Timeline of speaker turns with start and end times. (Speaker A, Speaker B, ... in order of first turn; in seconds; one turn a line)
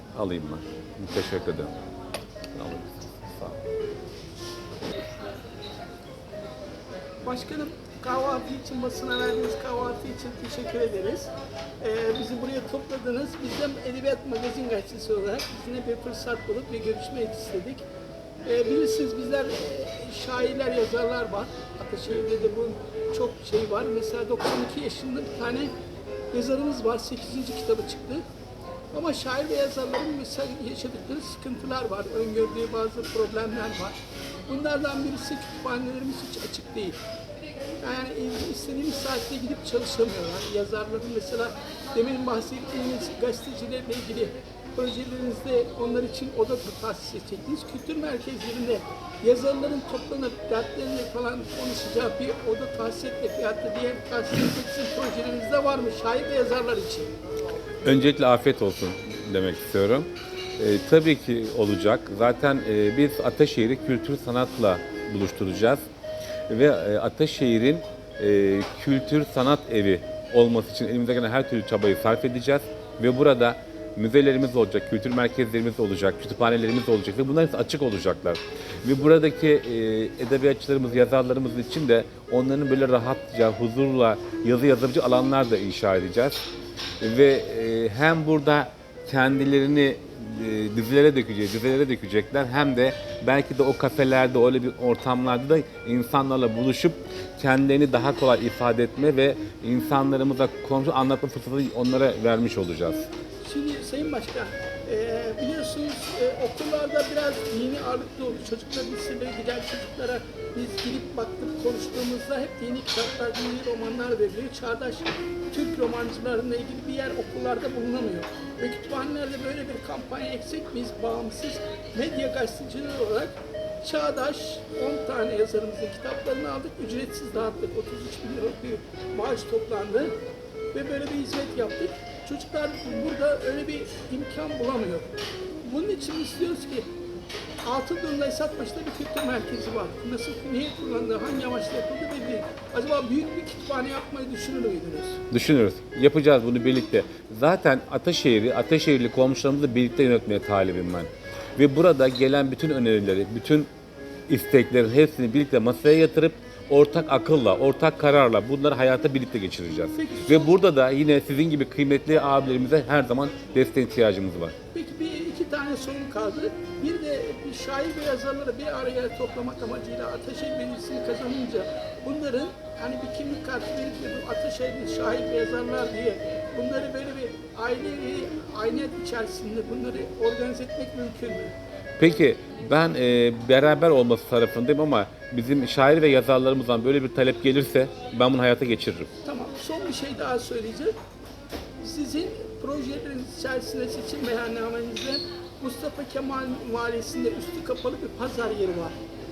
Speaker A: 0.1-1.7
Speaker A: 2.5-3.6
Speaker B: 4.9-5.4
Speaker B: 7.2-17.8
Speaker B: 18.4-25.7
Speaker B: 26.3-28.2
Speaker B: 28.9-34.0
Speaker B: 34.5-37.0
Speaker B: 37.8-57.1
Speaker A: 57.8-65.8
Speaker A: 66.5-86.4
Speaker A: 87.0-103.1
Speaker B: 103.4-130.1
Speaker B: 130.7-136.9
Speaker B: 137.7-145.2
Speaker A: 145.3-153.7
Speaker A: 154.3-164.5
Speaker B: 159.9-160.5
Speaker B: 164.7-181.6
Speaker A: 182.0-189.1
Speaker B: 189.2-190.9
Speaker B: 191.8-199.0